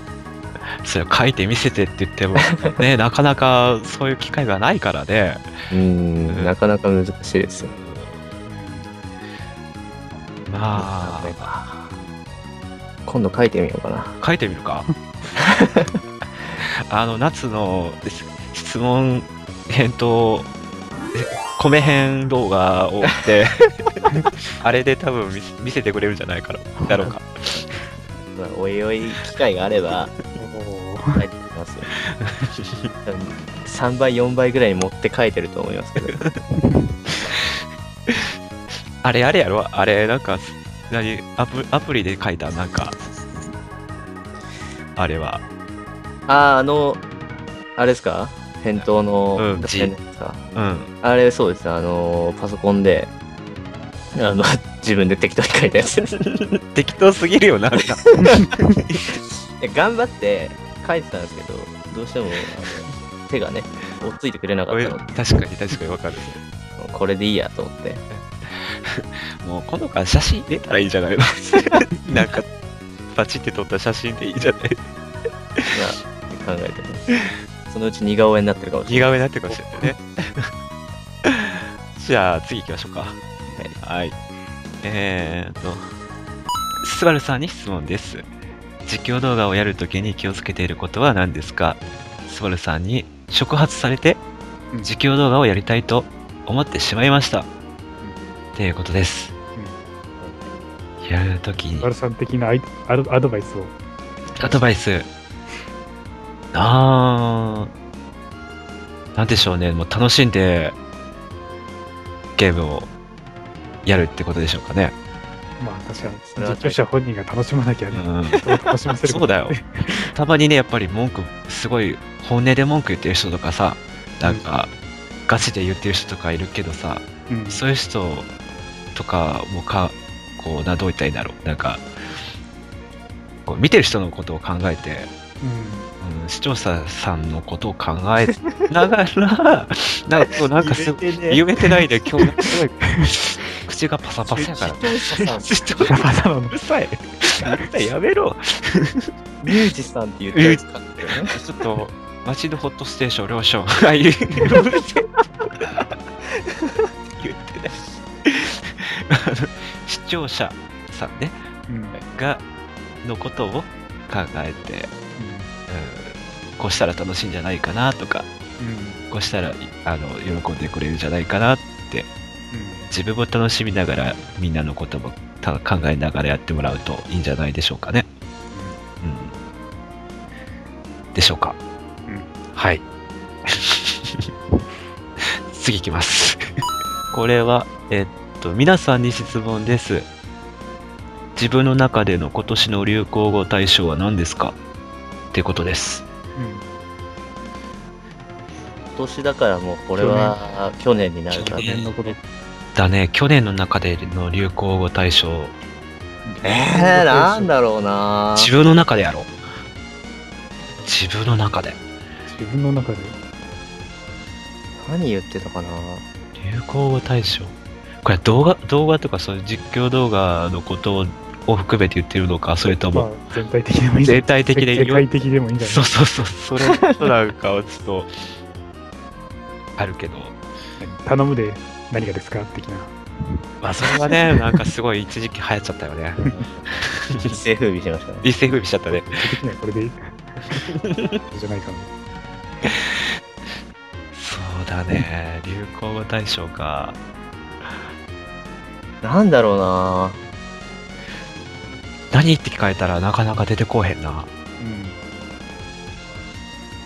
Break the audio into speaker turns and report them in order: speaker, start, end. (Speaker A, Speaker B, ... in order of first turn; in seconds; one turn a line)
Speaker A: 0.7-5.5
Speaker B: 2.5-2.8
Speaker B: 5.7-7.7
Speaker A: 6.3-6.5
Speaker A: 7.7-8.2
Speaker C: 8.5-8.9
Speaker A: 10.5-11.4
Speaker B: 10.8-11.9
Speaker B: 13.1-14.2
Speaker A: 14.2-14.9
Speaker C: 14.9-15.3
Speaker B: 15.4-16.0
Speaker A: 16.9-20.5
Speaker A: 21.1-27.8
Speaker C: 26.8-27.1
Speaker B: 28.4-30.1
Speaker C: 30.4-31.2
Speaker B: 31.1-31.9
Speaker A: 32.0-32.9
Speaker B: 33.0-36.2
Speaker A: 36.0-36.4
Speaker C: 36.6-37.2
Speaker A: 37.3-38.4
Speaker A: 39.0-43.0
Speaker A: 45.0-45.4
Speaker B: 46.3-47.0
Speaker B: 47.8-50.4
Speaker A: 49.4-50.0
Speaker A: 50.5-50.9
Speaker B: 51.0-53.1
Speaker B: 54.1-56.2
Speaker A: 56.2-59.1
Speaker C: 58.2-58.5
Speaker B: 59.1-65.0
Speaker A: 64.7-66.4
Speaker B: 66.8-68.0
Speaker A: 68.1-72.5
Speaker A: 73.1-74.9
Speaker B: 75.7-77.1
Speaker B: 77.7-79.9
Speaker A: 78.9-80.5
Speaker A: 81.2-83.2
Speaker B: 83.5-83.8
Speaker A: 83.8-84.2
Speaker A: 84.8-85.9
Speaker A: 86.8-88.3
Speaker A: 88.8-94.2
Speaker A: 94.8-97.5
Speaker A: 98.5-99.3
Speaker B: 100.2-100.5
Speaker A: 101.0-101.9
Speaker C: 101.8-103.7
Speaker A: 104.4-105.1
Speaker A: 106.5-107.7
Speaker A: 109.2-110.8
Speaker A: 112.4-112.9
Speaker A: 113.8-115.0
Speaker C: 115.6-120.1
Speaker B: 116.0-116.8
Speaker A: 117.9-118.4
Speaker A: 119.0-124.7
Speaker A: 125.3-128.3
Speaker C: 127.3-127.6
Speaker A: 128.9-131.8
Speaker A: 133.5-135.1
Speaker C: 135.4-135.9
Speaker A: 136.0-149.1
Speaker B: 138.4-138.7
Speaker B: 140.6-141.4
Speaker B: 144.3-145.5
Speaker C: 145.9-146.5
Speaker B: 149.4-151.4
Speaker A: 150.3-150.6
Speaker A: 151.2-155.8
Speaker B: 156.5-156.9
Speaker A: 157.2-161.4
Speaker C: 161.7-162.0
Speaker A: 161.9-162.4
Speaker A: 163.0-164.9
Speaker C: 165.2-165.5
Speaker A: 165.7-168.3
Speaker C: 168.6-169.0
Speaker A: 169.1-172.1
Speaker C: 172.5-172.9
Speaker A: 172.9-178.1
Speaker C: 178.5-178.8
Speaker A: 179.0-179.3
Speaker A: 181.1-181.6
Speaker A: 182.5-182.8
Speaker A: 183.5-184.3
Speaker A: 185.2-186.6
Speaker A: 187.1-190.1
Speaker A: 191.4-194.6
Speaker A: 195.3-196.1
Speaker C: 196.4-196.7
Speaker B: 198.9-201.7
Speaker C: 200.0-200.4
Speaker A: 201.3-202.1
Speaker C: 201.5-202.2
Speaker A: 202.8-205.6
Speaker C: 206.2-207.5
Speaker B: 206.4-208.5
Speaker A: 208.4-209.3
Speaker A: 210.8-211.8
Speaker C: 212.3-213.2
Speaker B: 214.8-216.1
Speaker A: 216.4-223.1
Speaker C: 222.9-225.9
Speaker A: 224.0-225.1
Speaker A: 225.6-228.1
Speaker B: 226.7-227.1
Speaker A: 229.8-230.3
Speaker C: 230.8-233.4
Speaker A: 233.6-237.3
Speaker B: 237.2-238.3
Speaker A: 238.2-239.3
Speaker C: 239.1-240.7
Speaker A: 240.7-241.2
Speaker C: 241.3-241.9
Speaker A: 242.7-243.1
Speaker A: 244.1-247.0
Speaker B: 249.0-250.2
Speaker A: 252.1-254.3
Speaker C: 254.6-255.0